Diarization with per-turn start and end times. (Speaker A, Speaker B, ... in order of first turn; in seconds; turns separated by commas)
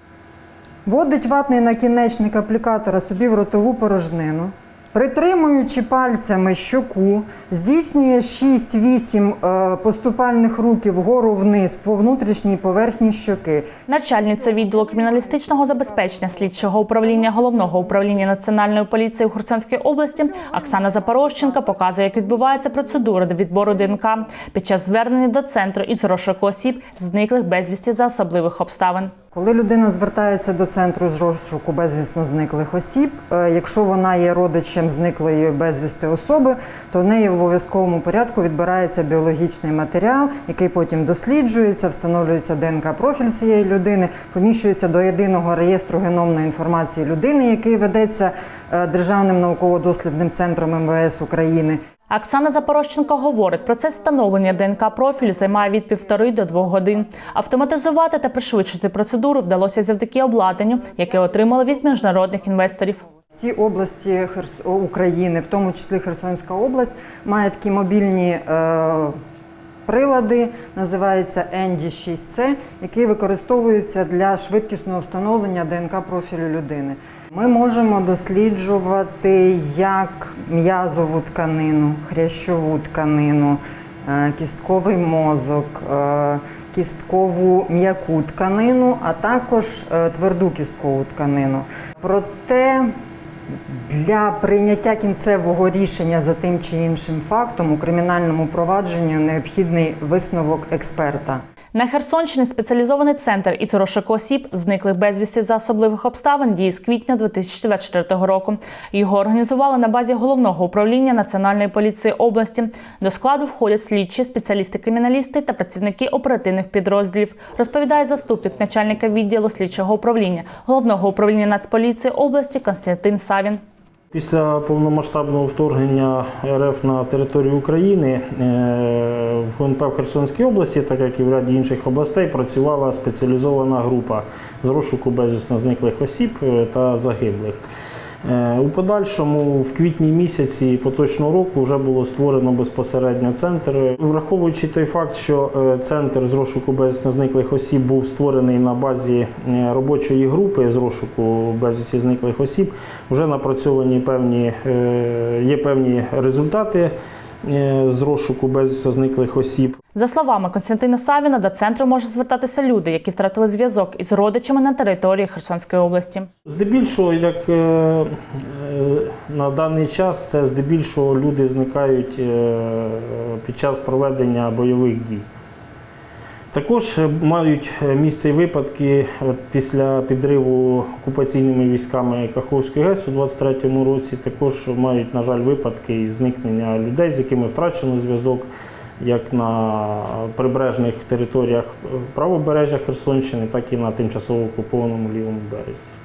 Speaker A: 0.8-13.7, Speaker B: 13.9-29.1, Speaker A: 29.3-51.8, Speaker B: 52.1-63.0, Speaker A: 63.4-69.2, Speaker A: 69.8-92.9, Speaker A: 93.7-101.4, Speaker B: 101.7-123.6, Speaker C: 124.1-137.6, Speaker C: 138.2-156.9, Speaker C: 157.4-159.8, Speaker B: 159.9-166.3, Speaker C: 166.4-175.2, Speaker C: 176.5-188.5, Speaker C: 189.0-195.9